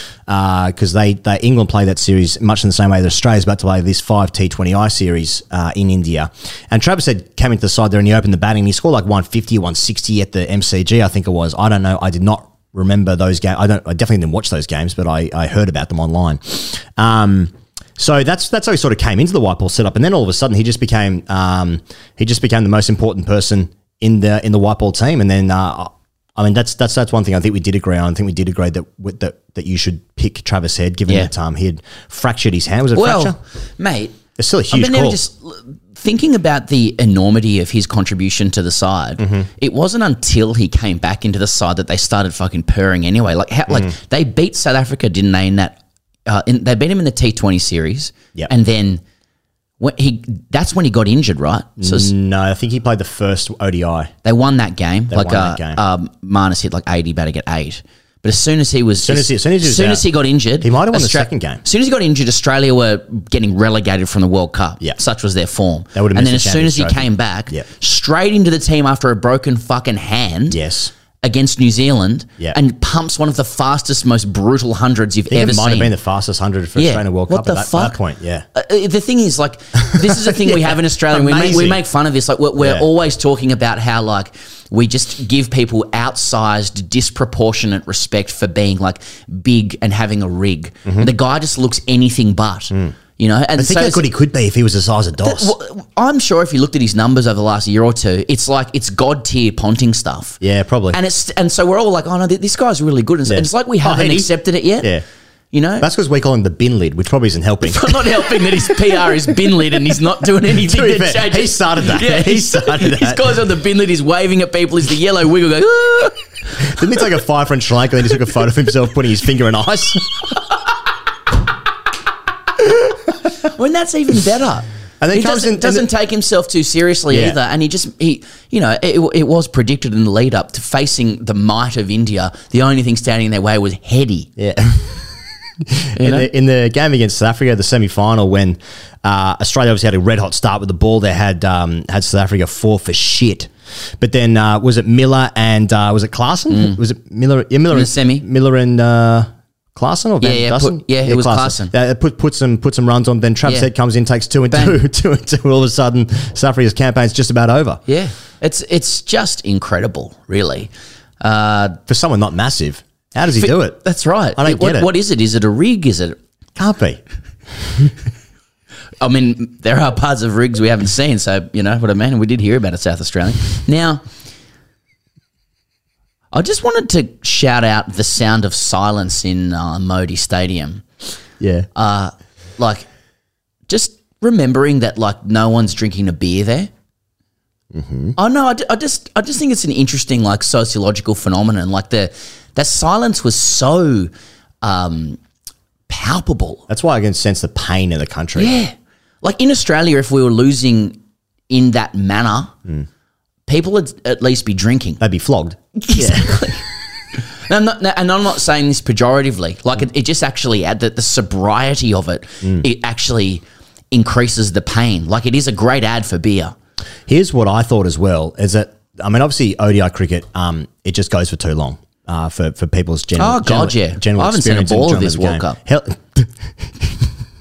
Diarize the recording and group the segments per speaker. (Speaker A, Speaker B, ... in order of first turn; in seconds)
Speaker A: 0.3-33.4, 34.4-35.2, 39.2-39.5, 51.8-54.1, 55.1-55.8, 59.0-60.1, 60.6-61.6, 65.9-67.7, 70.5-70.9, 75.3-78.5, 79.8-81.8, 82.6-82.9, 90.9-91.1, 93.6-95.5, 100.4-101.0, 103.3-105.0, 105.8-109.1, 110.5-113.2, 116.7-120.3, 125.0-125.9, 127.1-127.4, 134.4-157.8, 161.9-163.8, 164.4-164.9, 166.6-167.0, 167.6-167.9, 181.4-181.7, 187.7-188.2, 196.7-198.6, 205.0-206.7, 217.1-227.1
Speaker B: 32.9-34.2, 34.7-49.0, 49.8-52.1, 54.2-70.6, 71.2-75.9, 76.8-78.0, 78.5-94.1, 95.2-100.4, 100.9-104.9, 105.5-105.9, 107.6-116.2, 123.5-134.3, 136.0-136.3, 146.5-146.8, 147.7-148.2, 150.2-151.7, 153.4-153.7, 154.5-154.8, 157.9-161.8, 163.3-166.2, 169.0-174.0, 176.3-180.8, 181.8-182.9, 183.7-186.7, 188.2-194.1, 194.6-195.2, 195.9-196.7, 198.4-202.6, 203.5-205.0, 205.8-206.6, 207.2-216.6, 223.2-225.6